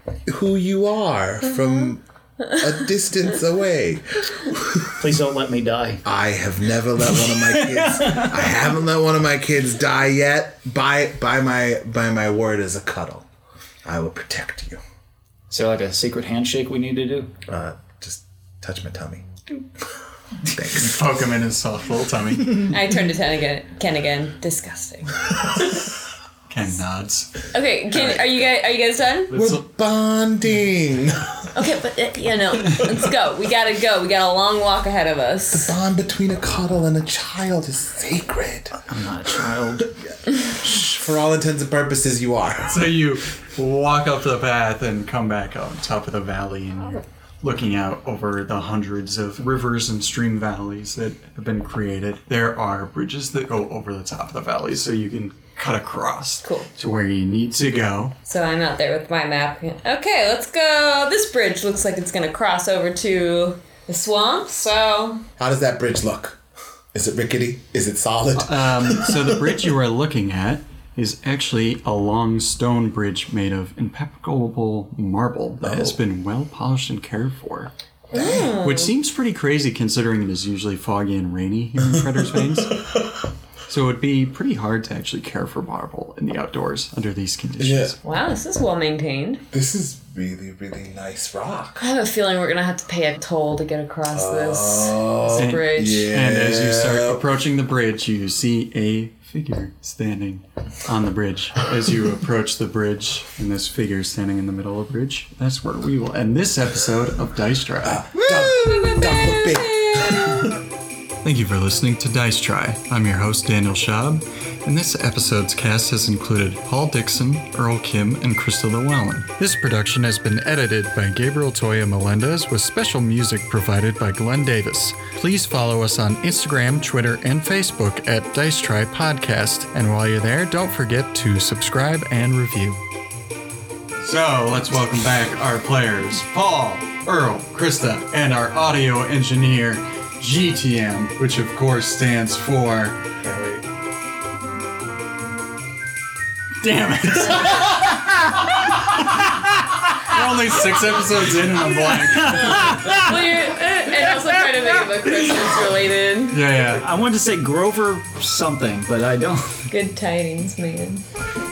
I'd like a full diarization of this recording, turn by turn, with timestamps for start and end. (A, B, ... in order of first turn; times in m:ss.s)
0:00.3-0:05.1 A
0:05.0-0:06.0 B
0:06.0-0:13.3 A
0:07.1-0:08.6 B
0:13.8-0:14.8 A
0:15.5-0:17.3 B
0:17.5-0:19.2 A
0:20.5-0:21.0 A
0:20.7-0:22.7 C
0:22.7-0:25.5 D
0:26.5-0:27.3 C
0:27.5-0:29.3 D
0:27.9-0:28.5 A
0:29.3-0:31.5 A
0:31.5-0:35.7 D
0:35.5-0:38.8 A
0:38.9-0:39.9 B
0:39.4-0:42.9 A
0:42.7-0:58.2 C
0:58.3-1:05.2 D
1:05.4-1:06.4 A
1:06.9-1:09.6 A
1:08.4-1:17.7 C
1:15.6-1:16.0 A
1:18.1-1:18.6 A
1:18.1-1:18.9 D
1:18.6-1:22.8 C
1:21.9-1:23.1 A
1:23.7-1:28.0 C
1:27.6-1:28.0 A
1:28.0-1:29.4 D
1:29.5-1:31.9 A
1:31.8-1:36.1 D
1:34.1-1:37.2 A
1:35.4-1:48.0 C
1:47.8-1:50.6 A
1:48.2-1:50.6 D
1:51.2-2:12.8 C
2:14.0-2:23.2 C
2:23.2-2:23.6 A
2:26.6-2:28.0 C
2:30.0-2:32.8 C
2:31.7-2:35.5 B
2:32.2-2:36.4 D
2:36.3-2:36.9 C
2:36.7-2:39.7 B
2:39.7-2:41.0 D